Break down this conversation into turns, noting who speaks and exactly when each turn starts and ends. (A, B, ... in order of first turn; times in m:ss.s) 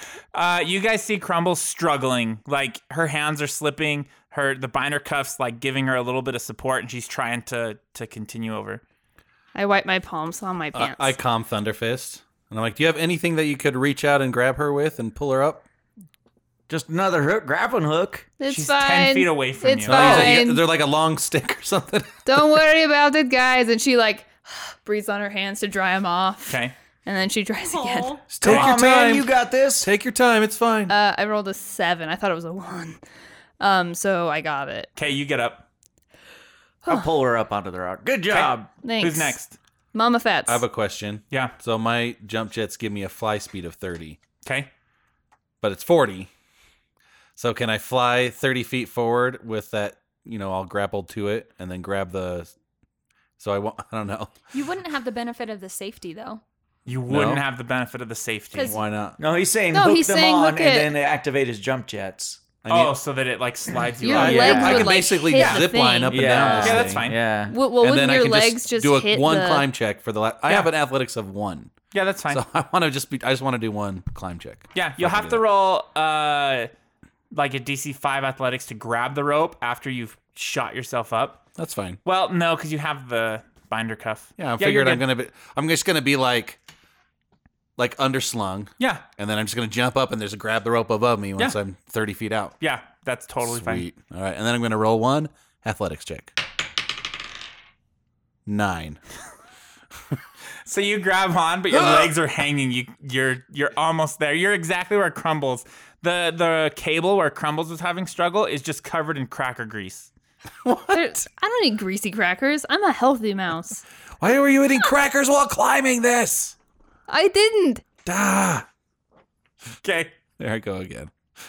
0:00.3-0:08.8 A
0:09.5-0:11.2 B
0:10.7-0:15.7 C
0:16.7-0:18.3 D
0:18.4-0:20.6 B
0:18.5-0:20.4 A
0:19.9-0:22.4 C
0:22.3-0:28.3 B
0:26.5-0:26.7 A
0:27.6-0:28.2 E
0:28.3-0:30.9 C
0:28.4-0:29.9 D
0:28.4-0:28.7 A
0:30.9-0:33.0 B
0:33.6-0:34.9 B
0:35.0-0:35.6 A
0:36.9-0:38.7 D
0:38.3-0:39.6 A
0:38.8-0:39.4 B
0:39.9-0:40.6 B
0:40.5-0:44.2 C
0:44.4-0:44.7 A
0:45.6-0:46.3 C
0:47.4-0:52.5 C
0:53.4-0:54.3 C
0:54.5-0:56.4 E
0:56.9-0:58.8 A
0:57.1-0:57.4 C
0:58.5-0:58.8 E
0:58.6-0:59.2 C
0:59.2-1:02.4 D
0:59.7-1:00.9 B
1:02.6-1:02.9 C
1:02.7-1:05.6 A
1:04.0-1:06.6 B
1:04.1-1:07.1 C
1:04.2-1:04.9 D
1:06.1-1:07.6 D
1:06.5-1:07.2 A
1:07.5-1:09.7 B
1:07.8-1:11.7 C
1:11.9-1:12.4 A
1:12.3-1:15.4 C
1:14.7-1:16.7 A
1:17.3-1:21.4 A
1:21.6-1:22.0 C
1:22.0-1:25.1 A
1:24.4-1:26.6 C
1:27.8-1:32.6 C
1:28.8-1:29.0 A
1:32.6-1:33.9 A
1:33.4-1:36.4 C
1:38.5-1:39.0 C
1:40.7-1:50.1 A
1:41.7-1:42.1 C
1:50.6-1:51.2 C
1:50.9-1:53.8 B
1:54.2-1:56.6 C
1:57.1-1:57.8 B
1:58.1-1:58.7 C
1:59.8-2:00.2 A
2:00.4-2:01.1 C